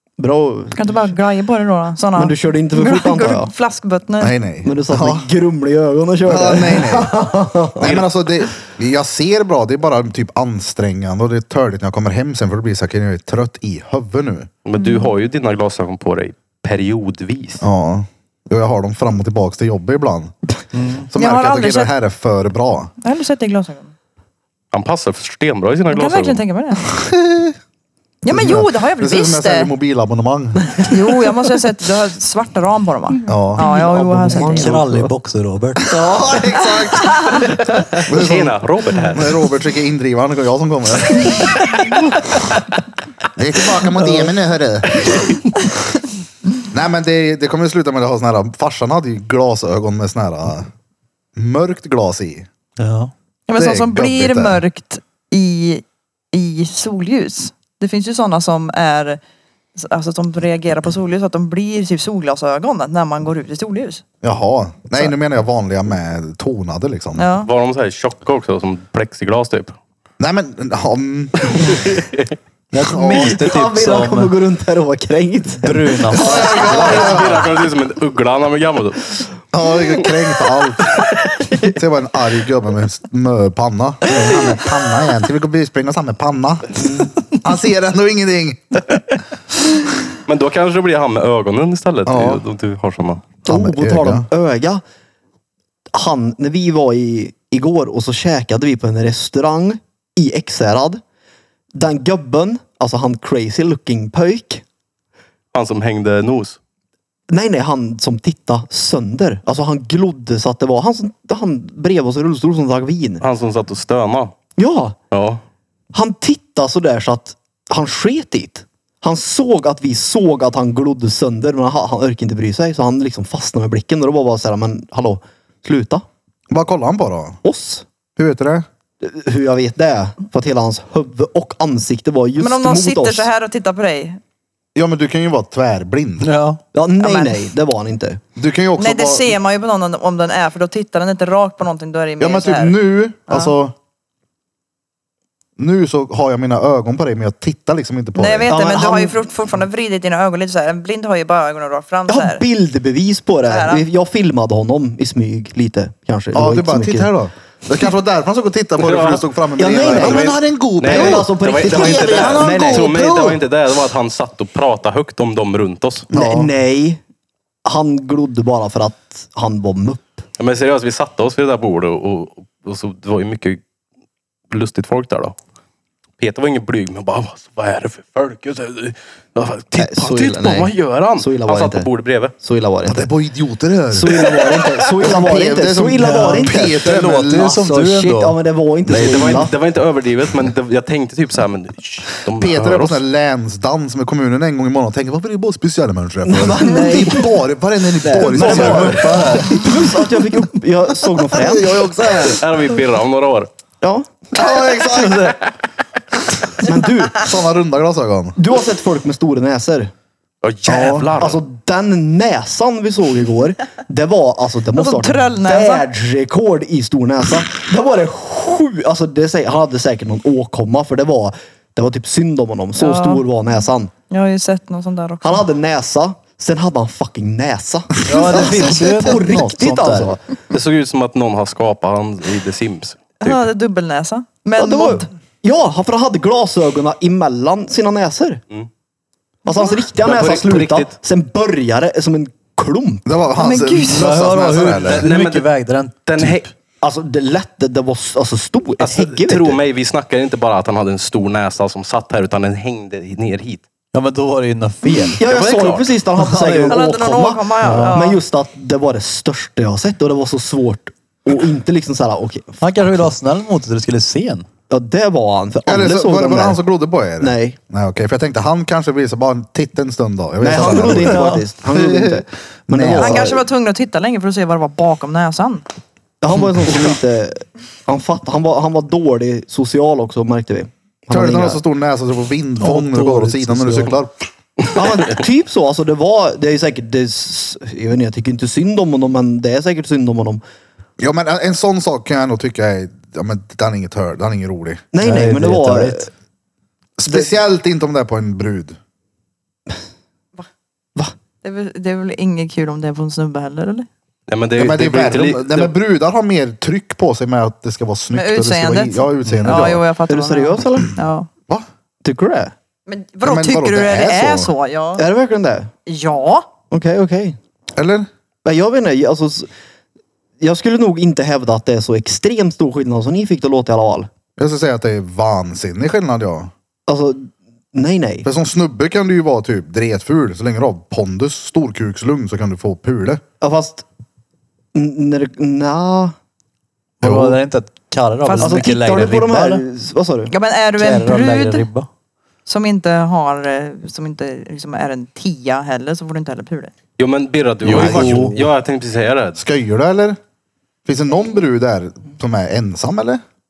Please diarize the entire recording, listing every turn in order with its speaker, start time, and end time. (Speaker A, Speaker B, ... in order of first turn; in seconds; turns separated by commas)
Speaker A: 0.2-1.1, Speaker B: 0.7-4.3, Speaker A: 2.1-3.5, Speaker C: 4.2-5.3, Speaker A: 4.6-8.0, Speaker C: 6.2-7.2, Speaker C: 7.8-14.5, Speaker D: 14.6-17.6, Speaker B: 14.8-15.1, Speaker C: 17.6-20.3, Speaker E: 20.7-21.1, Speaker C: 21.0-22.9, Speaker B: 21.1-21.9, Speaker B: 23.0-23.9, Speaker D: 24.7-26.4, Speaker B: 25.9-26.9, Speaker C: 26.9-27.6, Speaker B: 28.2-29.7, Speaker C: 28.3-30.9, Speaker B: 30.8-34.8, Speaker C: 33.3-33.7, Speaker A: 33.6-35.1, Speaker E: 34.3-35.9, Speaker A: 35.9-36.7, Speaker C: 35.9-37.4, Speaker B: 37.1-37.4, Speaker D: 37.9-39.4, Speaker C: 38.0-38.5, Speaker C: 39.1-41.8, Speaker C: 43.3-45.3, Speaker C: 46.7-50.7, Speaker C: 51.4-52.5, Speaker E: 52.8-53.1, Speaker B: 53.5-59.2, Speaker C: 53.5-54.6, Speaker B: 59.8-64.0, Speaker C: 64.2-67.3, Speaker B: 67.2-67.5, Speaker D: 67.4-69.8, Speaker C: 70.2-71.9, Speaker D: 71.7-72.3, Speaker E: 72.7-74.3, Speaker A: 72.9-77.2, Speaker E: 75.6-76.7, Speaker C: 76.1-77.5, Speaker D: 76.5-79.1, Speaker C: 79.5-81.1, Speaker C: 81.6-89.0, Speaker A: 86.8-87.1, Speaker D: 90.3-93.3, Speaker C: 92.0-92.4, Speaker C: 93.4-94.2, Speaker A: 93.5-94.8, Speaker A: 95.9-101.0, Speaker A: 101.7-104.6, Speaker D: 105.5-106.6, Speaker A: 107.3-113.2, Speaker D: 113.2-114.3, Speaker A: 114.6-115.0, Speaker D: 115.1-115.4, Speaker A: 115.9-126.0, Speaker C: 126.5-127.4, Speaker A: 127.4-127.8, Speaker C: 128.2-128.7, Speaker A: 129.0-133.3, Speaker B: 132.4-134.2, Speaker C: 134.7-136.3, Speaker E: 136.2-136.6, Speaker A: 136.7-138.2, Speaker B: 137.0-137.4, Speaker C: 138.3-139.3, Speaker B: 138.8-142.8, Speaker C: 142.2-143.7, Speaker B: 143.3-143.5, Speaker C: 145.6-148.5, Speaker B: 148.1-152.4, Speaker A: 148.5-149.2, Speaker A: 152.1-157.1, Speaker B: 153.5-153.8, Speaker C: 156.3-163.4, Speaker D: 158.8-166.1, Speaker A: 159.6-162.9, Speaker C: 166.1-166.5, Speaker A: 166.1-167.0, Speaker A: 167.6-170.2, Speaker D: 170.4-173.6, Speaker D: 174.5-175.3, Speaker D: 176.2-182.3, Speaker A: 179.7-181.9, Speaker A: 182.4-183.1, Speaker C: 182.8-184.3, Speaker A: 183.9-186.9, Speaker D: 184.4-184.7, Speaker C: 185.0-187.6, Speaker E: 186.0-188.4, Speaker A: 187.5-189.5, Speaker E: 188.9-189.4, Speaker D: 188.9-193.0, Speaker C: 192.3-199.4, Speaker A: 196.2-197.3, Speaker E: 198.0-200.0, Speaker A: 198.1-201.9, Speaker C: 201.3-202.4, Speaker D: 202.0-203.5, Speaker A: 203.8-204.2, Speaker C: 204.3-205.4, Speaker A: 204.8-205.1, Speaker A: 206.6-207.3, Speaker C: 207.1-208.4, Speaker A: 208.3-209.9, Speaker D: 210.4-211.4, Speaker A: 210.7-223.9, Speaker B: 214.7-215.8, Speaker B: 222.8-223.2, Speaker B: 224.1-225.4, Speaker A: 225.2-230.2, Speaker E: 228.1-230.2, Speaker D: 230.5-233.4, Speaker B: 233.2-235.1, Speaker A: 234.6-238.4, Speaker A: 239.4-243.1, Speaker D: 240.0-240.9, Speaker C: 243.0-245.1, Speaker B: 243.3-244.2, Speaker E: 243.9-246.4, Speaker D: 244.9-245.5, Speaker D: 246.1-246.5, Speaker A: 246.8-249.6, Speaker D: 248.8-253.6, Speaker E: 253.9-255.3, Speaker A: 254.8-263.1, Speaker D: 255.2-255.9, Speaker E: 256.2-256.8, Speaker B: 256.7-258.2, Speaker E: 257.6-257.9, Speaker E: 262.6-264.4, Speaker A: 264.7-266.6, Speaker C: 265.6-273.4, Speaker A: 267.2-267.6, Speaker A: 270.4-273.4, Speaker E: 270.6-271.4, Speaker B: 273.0-275.6, Speaker A: 276.2-281.6, Speaker C: 281.1-284.1, Speaker E: 282.6-283.9, Speaker A: 284.7-290.4, Speaker C: 291.0-294.9, Speaker A: 294.9-296.1, Speaker E: 295.0-296.1, Speaker C: 297.0-298.8, Speaker B: 301.4-303.9, Speaker D: 304.3-305.7, Speaker C: 304.6-309.9, Speaker B: 308.1-311.3, Speaker E: 309.3-309.5, Speaker A: 310.1-310.9, Speaker A: 312.0-312.5, Speaker B: 312.9-315.1, Speaker C: 313.2-314.5, Speaker A: 315.0-315.7, Speaker B: 315.9-316.5, Speaker A: 316.7-317.4, Speaker C: 317.8-318.1, Speaker A: 318.4-319.5, Speaker A: 320.4-324.1, Speaker C: 324.4-326.5, Speaker A: 326.9-328.3, Speaker C: 328.2-333.2, Speaker A: 333.4-333.8, Speaker A: 334.7-336.1, Speaker E: 337.0-339.6, Speaker C: 337.0-337.4, Speaker B: 338.2-338.6, Speaker A: 338.4-340.3, Speaker B: 340.3-341.7, Speaker E: 340.8-341.9, Speaker B: 342.4-346.7, Speaker D: 347.0-349.4, Speaker E: 347.6-348.4, Speaker C: 347.6-348.4, Speaker C: 349.4-350.2, Speaker C: 350.9-353.2